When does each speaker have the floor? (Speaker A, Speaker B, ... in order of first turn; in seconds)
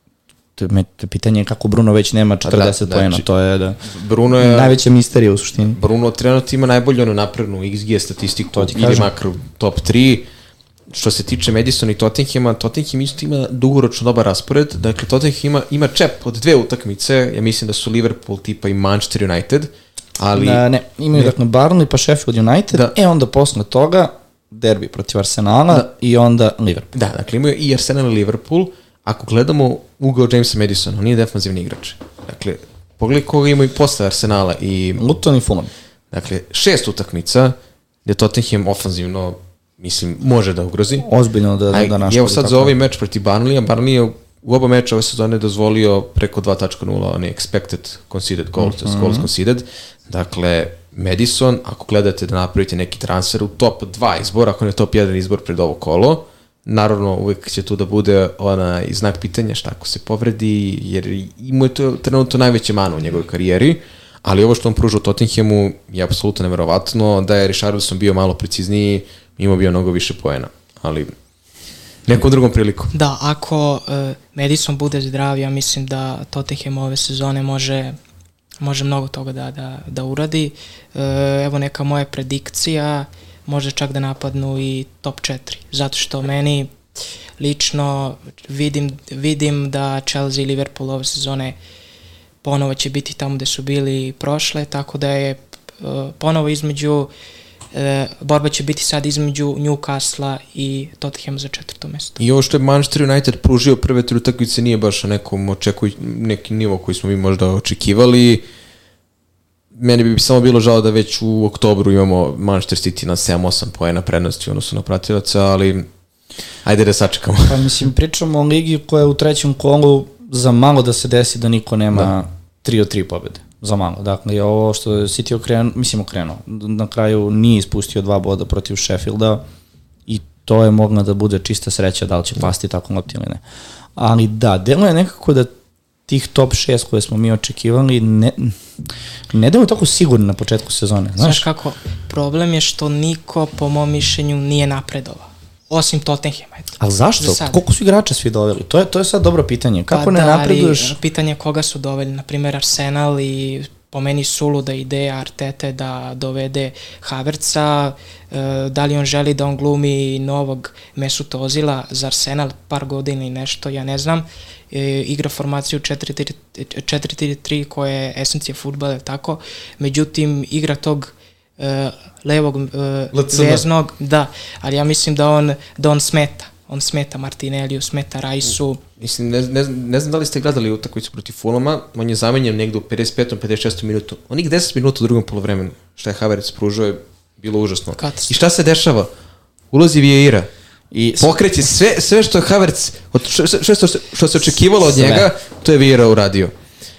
Speaker A: 0.6-3.8, 4.4-5.8, 8.5-9.1, 20.3-26.9, 35.0-35.7, 41.0-42.8, 48.6-49.3, 117.5-129.4, 130.1-133.4, 134.0-135.5, 136.1-138.6, 139.3-141.5, 146.8-151.0, 190.9-191.3, 194.8-195.3
Speaker B: 2.4-3.2, 3.9-4.8, 5.8-10.3, 10.9-21.4, 26.9-35.0, 36.1-41.1, 41.7-71.1, 72.1-72.9, 102.2-108.4, 109.8-115.9, 116.6-117.8, 173.1-173.7, 179.0-189.1, 189.7-190.5, 191.2-196.5
Speaker C: 72.9-78.0, 78.6-86.7, 87.4-91.6, 92.4-97.1, 97.7-102.2, 141.2-147.6, 149.9-178.8, 188.0-188.3